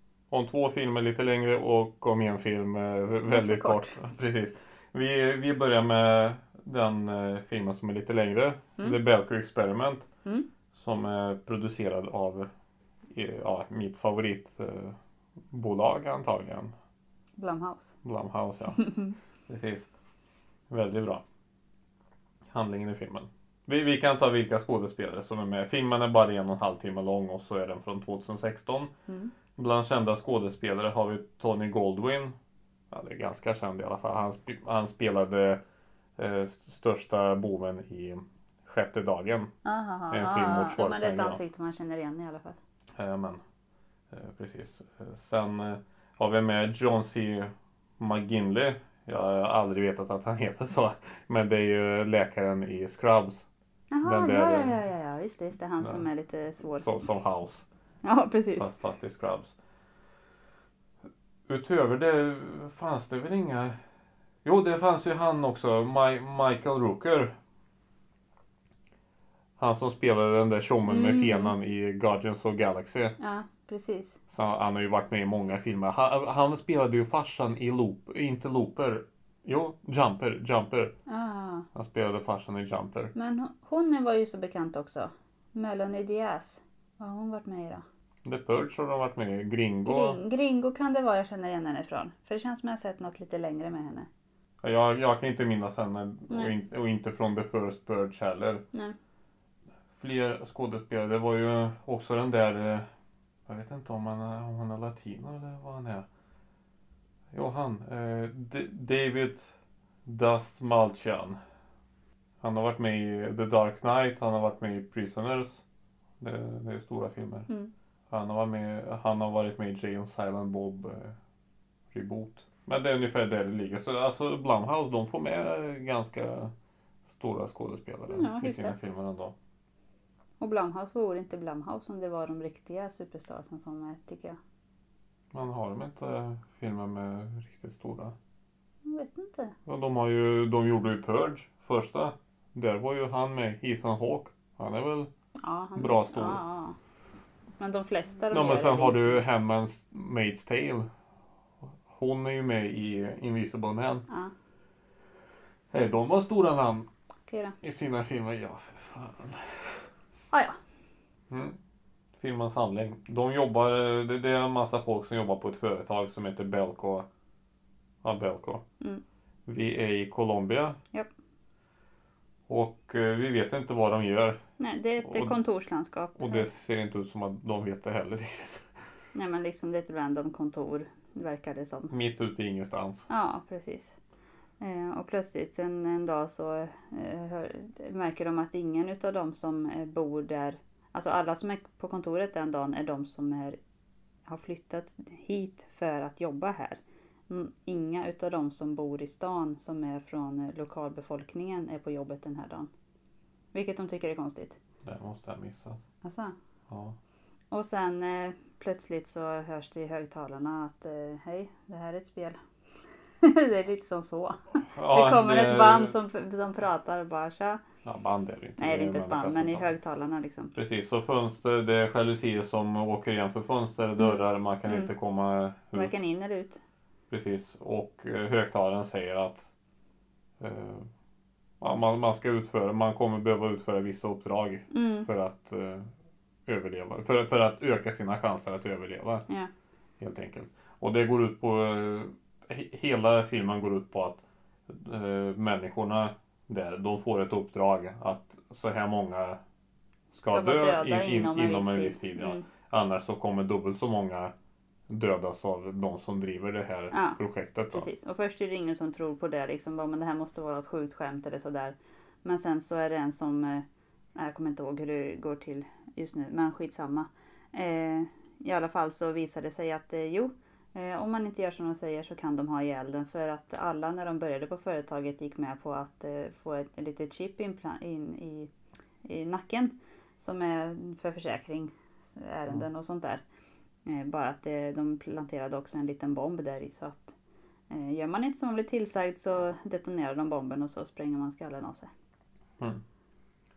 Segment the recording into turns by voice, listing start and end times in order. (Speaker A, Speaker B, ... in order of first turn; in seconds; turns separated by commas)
Speaker A: 0.3-10.1, Speaker B: 3.3-4.0, Speaker A: 10.7-12.5, Speaker A: 13.1-15.0, Speaker A: 15.5-16.7, Speaker B: 17.4-17.9, Speaker A: 18.0-18.8, Speaker B: 18.8-19.1, Speaker A: 19.5-19.9, Speaker A: 20.7-21.2, Speaker A: 22.5-28.9, Speaker A: 29.6-32.3, Speaker A: 32.9-35.6, Speaker A: 36.2-39.5, Speaker B: 39.6-42.6, Speaker A: 40.1-41.4, Speaker A: 42.9-43.4, Speaker A: 44.1-53.5, Speaker B: 53.9-56.9, Speaker A: 54.0-54.8, Speaker A: 56.8-57.6, Speaker B: 58.0-58.7, Speaker A: 58.6-59.5, Speaker A: 61.5-63.8, Speaker A: 64.4-67.3, Speaker A: 69.6-73.1, Speaker B: 70.9-71.5, Speaker B: 73.2-74.2, Speaker A: 74.3-80.9, Speaker B: 81.1-81.7, Speaker A: 81.7-83.1, Speaker B: 83.1-87.8, Speaker A: 88.2-90.2, Speaker B: 89.8-94.1, Speaker A: 94.6-98.6, Speaker A: 100.0-102.8, Speaker A: 103.5-106.0, Speaker A: 107.3-109.5, Speaker A: 110.0-111.4, Speaker A: 112.4-115.6, Speaker A: 116.2-117.5, Speaker A: 118.1-121.1, Speaker A: 121.9-126.5, Speaker A: 127.1-129.3, Speaker B: 128.1-128.8, Speaker B: 130.4-134.4, Speaker A: 135.3-138.1, Speaker B: 138.8-139.5, Speaker A: 139.7-145.1, Speaker B: 145.4-146.8, Speaker A: 145.8-146.4, Speaker B: 147.6-149.2, Speaker A: 148.3-150.9, Speaker A: 151.9-154.0, Speaker A: 155.7-156.9, Speaker B: 157.3-157.6, Speaker A: 157.6-159.8, Speaker B: 160.3-160.6, Speaker A: 161.3-161.6, Speaker A: 162.2-167.1, Speaker A: 168.0-168.6, Speaker A: 169.4-170.8, Speaker A: 172.5-174.4, Speaker B: 174.6-176.5, Speaker A: 175.0-175.3, Speaker A: 176.2-178.7, Speaker B: 179.1-181.9, Speaker A: 181.9-183.1, Speaker B: 183.1-184.0, Speaker B: 184.6-193.6, Speaker B: 194.3-202.7, Speaker B: 203.5-204.6, Speaker A: 204.8-205.8, Speaker B: 206.0-206.3, Speaker A: 206.7-206.9, Speaker B: 207.5-212.4, Speaker B: 213.2-217.6, Speaker A: 214.7-215.9, Speaker A: 217.8-219.7, Speaker B: 218.6-220.5, Speaker A: 220.5-225.9, Speaker B: 224.0-224.9, Speaker B: 225.7-226.6, Speaker A: 227.1-229.5, Speaker A: 230.4-230.9, Speaker A: 231.6-235.9, Speaker B: 234.7-235.1, Speaker A: 236.5-239.2, Speaker A: 240.0-249.4, Speaker B: 250.1-252.4, Speaker A: 250.1-254.3, Speaker A: 254.9-257.9, Speaker B: 256.9-257.2, Speaker B: 257.7-263.6, Speaker B: 264.1-278.5, Speaker B: 279.0-283.2, Speaker B: 283.9-287.1, Speaker B: 287.7-291.9